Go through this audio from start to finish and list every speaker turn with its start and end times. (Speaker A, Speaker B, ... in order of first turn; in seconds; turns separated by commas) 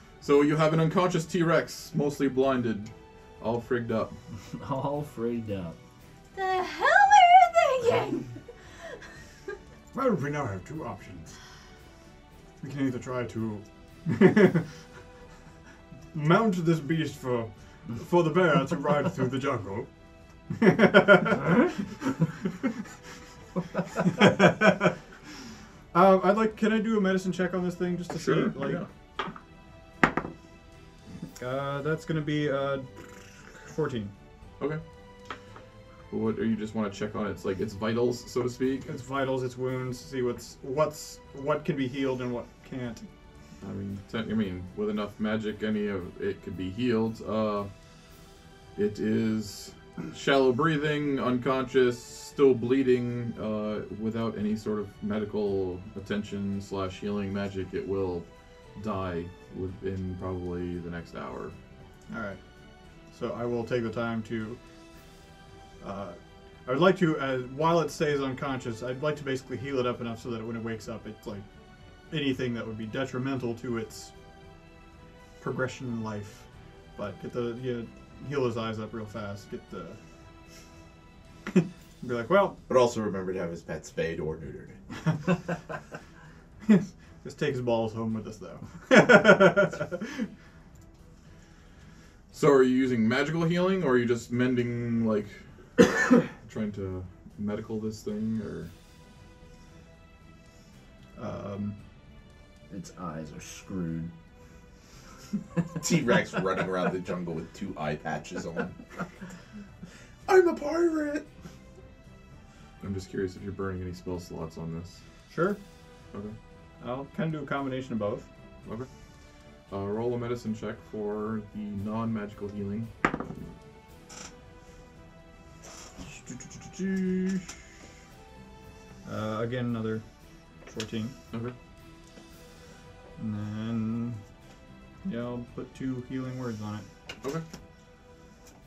Speaker A: 0.2-4.1, Speaker B: 4.5-5.8, Speaker C: 6.3-8.3, Speaker D: 9.9-11.4, Speaker D: 12.6-14.7, Speaker D: 16.1-19.9, Speaker D: 20.5-21.7, Speaker D: 23.9-25.0, Speaker D: 25.9-28.8, Speaker A: 28.1-28.9, Speaker D: 31.4-32.9, Speaker D: 33.4-34.1, Speaker A: 36.1-38.9, Speaker D: 38.9-43.1, Speaker A: 43.6-47.7, Speaker A: 48.8-61.5, Speaker D: 62.1-62.4, Speaker D: 63.1-64.6, Speaker D: 65.8-71.4, Speaker D: 72.1-74.1, Speaker D: 75.4-80.0, Speaker D: 81.5-82.6, Speaker E: 82.7-84.8, Speaker D: 86.6-90.3, Speaker A: 92.3-98.7, Speaker D: 101.2-101.8, Speaker B: 102.7-104.1, Speaker E: 105.7-108.8, Speaker E: 110.2-111.2, Speaker A: 112.8-115.0, Speaker D: 115.3-115.6, Speaker D: 116.8-118.3, Speaker A: 119.7-122.9, Speaker D: 126.0-127.4, Speaker D: 129.0-130.0, Speaker D: 130.7-131.2, Speaker D: 133.2-134.2, Speaker D: 135.0-136.9